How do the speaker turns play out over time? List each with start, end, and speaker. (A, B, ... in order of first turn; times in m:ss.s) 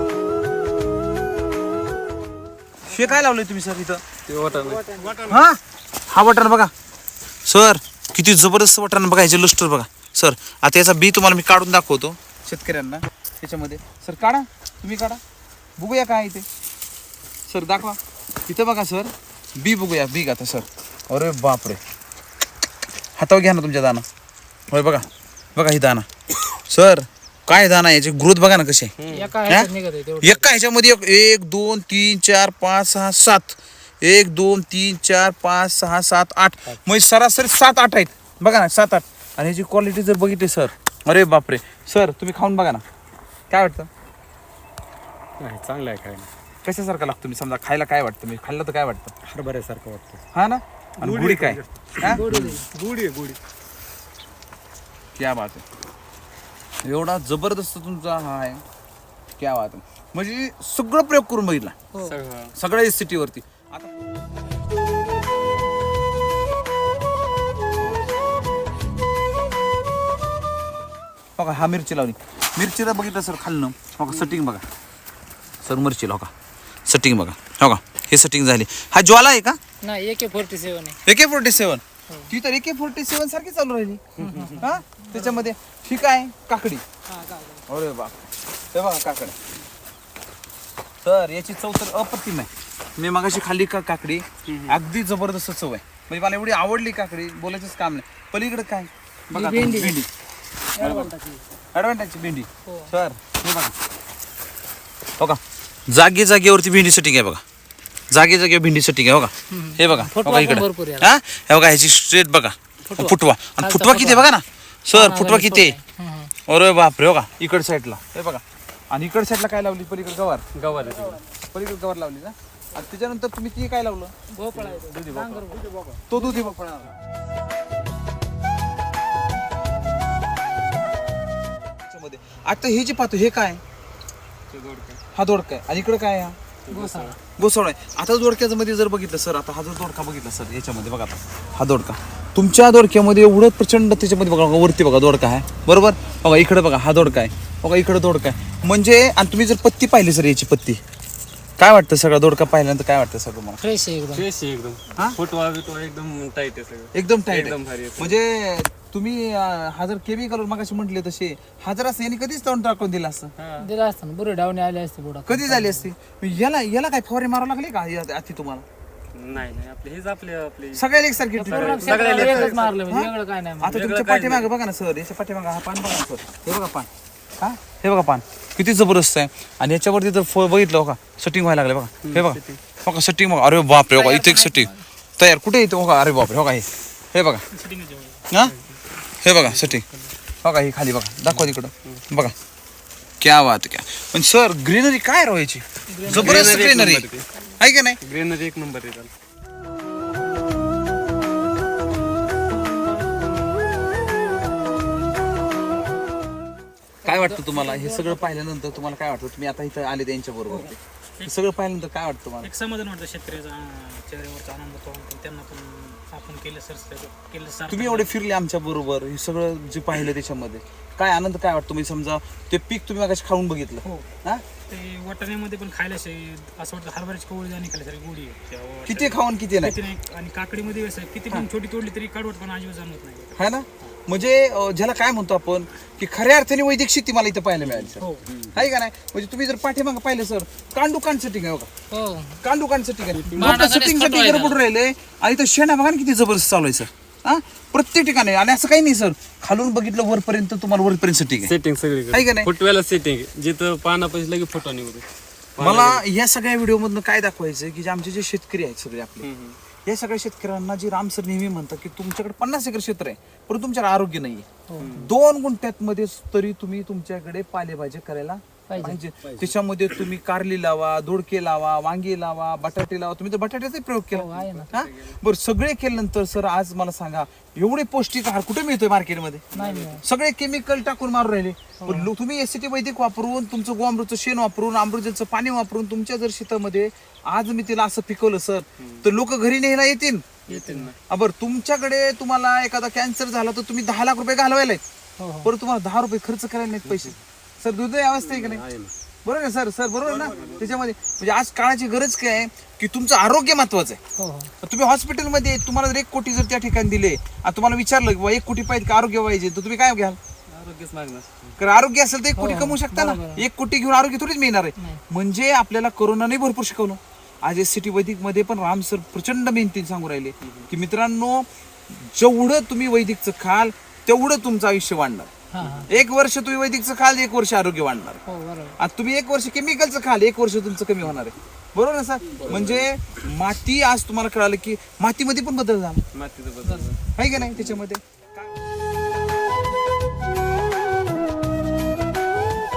0:02.8-0:04.0 A
0:04.3-0:04.9 B
0:04.5-0:05.4 C
0:05.3-0:05.6 A
0:06.1-0:06.7 A
0:07.4-0:15.2 A
0:15.8-0:16.4 A
0:17.5-0:21.8 A
0:23.2-0:24.0 A
0:24.7-0:28.9 A
0:29.0-0:29.3 B
0:29.1-0:30.5 D
0:30.2-0:42.8 A
0:43.5-0:43.9 A
0:45.4-0:46.3 B
0:46.6-0:49.1 A
0:49.2-0:50.2 B
0:50.3-0:52.2 A
0:51.0-0:53.4 C
0:52.0-0:52.6 D
0:55.1-0:55.6 A
0:56.8-0:58.6 A
0:59.4-1:01.7 A
1:01.9-1:02.2 D
1:02.0-1:02.5 B
1:02.6-1:03.9 A
1:11.4-1:14.6 A
1:14.1-1:14.4 B
1:15.6-1:16.3 A
1:16.8-1:19.6 A
1:19.8-1:21.0 D
1:21.0-1:26.8 A
1:24.2-1:24.6 B
1:24.2-1:25.5 D
1:27.1-1:27.6 D
1:27.7-1:29.4 A
1:31.0-1:40.1 A
1:34.5-1:34.8 B
1:39.3-1:40.0 D
1:40.7-1:41.4 D
1:40.8-1:41.1 A
1:41.7-1:43.7 A
1:42.6-1:42.9 D
1:45.2-1:47.4 A
1:48.1-1:55.8 A
1:49.5-1:51.1 D
1:52.8-1:54.3 D
1:54.9-1:56.3 D
1:56.5-2:00.4 A
2:00.5-2:01.2 B
2:01.5-2:04.1 A
2:04.3-2:06.8 D
2:04.5-2:05.5 B
2:05.5-2:06.0 C
2:06.1-2:06.7 A
2:11.8-2:13.6 A
2:14.5-2:15.0 B
2:15.1-2:16.4 A
2:16.6-2:17.2 B
2:16.7-2:17.2 D
2:17.4-2:30.8 A
2:27.0-2:27.2 B
2:31.6-2:33.6 A
2:33.6-2:34.2 D
2:34.1-2:38.2 B
2:36.9-2:43.3 A
2:43.4-2:43.7 B
2:43.6-2:45.9 D
2:45.2-2:48.6 A
2:49.1-2:50.8 B
2:50.7-2:52.4 A
2:51.3-2:53.8 D
2:51.4-2:52.7 B
2:52.1-2:52.5 C
2:52.9-2:56.9 A
2:53.6-2:54.5 B
2:57.4-3:07.4 A
3:02.0-3:02.6 B
3:03.9-3:04.8 D
3:07.5-3:08.2 E
3:08.4-3:10.1 B
3:09.2-3:09.8 A
3:10.4-3:12.3 A
3:11.2-3:12.0 B
3:13.2-3:18.0 A
3:15.9-3:16.6 D
3:16.1-3:17.2 B
3:18.0-3:19.1 B
3:27.0-3:28.4 D
3:27.0-3:32.5 A
3:30.5-3:31.4 E
3:32.4-3:38.1 E
3:37.7-3:44.4 A
3:44.7-3:53.4 E
3:48.8-3:49.8 A
3:53.4-4:01.7 A
3:57.6-3:58.6 B
3:58.0-3:58.2 E
4:01.9-4:02.4 D
4:02.4-4:11.5 A
4:03.1-4:03.6 B
4:03.4-4:04.6 D
4:11.4-4:15.0 B
4:12.1-4:12.5 A
4:15.6-4:16.0 B
4:15.6-4:19.3 A
4:19.2-4:19.6 B
4:19.8-4:39.5 A
4:24.7-4:24.9 D
4:24.8-4:25.1 B
4:28.7-4:29.0 D
4:29.2-4:29.5 B
4:34.1-4:34.7 D
4:34.3-4:35.2 B
4:39.5-4:40.0 B
4:39.5-4:40.0 D
4:40.0-4:50.4 A
4:41.8-4:42.1 D
4:48.8-4:49.0 B
4:50.5-4:51.0 B
4:50.5-4:50.9 D
4:51.1-4:54.8 A
4:55.2-4:55.5 D
4:55.4-4:58.6 A
4:56.8-4:57.2 B
4:58.2-4:58.9 B
4:59.2-5:04.0 A
5:00.0-5:00.6 C
5:00.2-5:00.8 B
5:04.2-5:04.5 D
5:04.6-5:10.2 A
5:10.5-5:11.6 B
5:11.6-5:25.3 A
5:12.4-5:13.4 D
5:25.5-5:25.9 D
5:25.6-5:25.9 B
5:25.9-5:28.2 A
5:28.2-5:28.8 D
5:28.8-5:36.0 A
5:32.3-5:32.9 B
5:36.1-5:37.8 B
5:37.2-5:38.5 A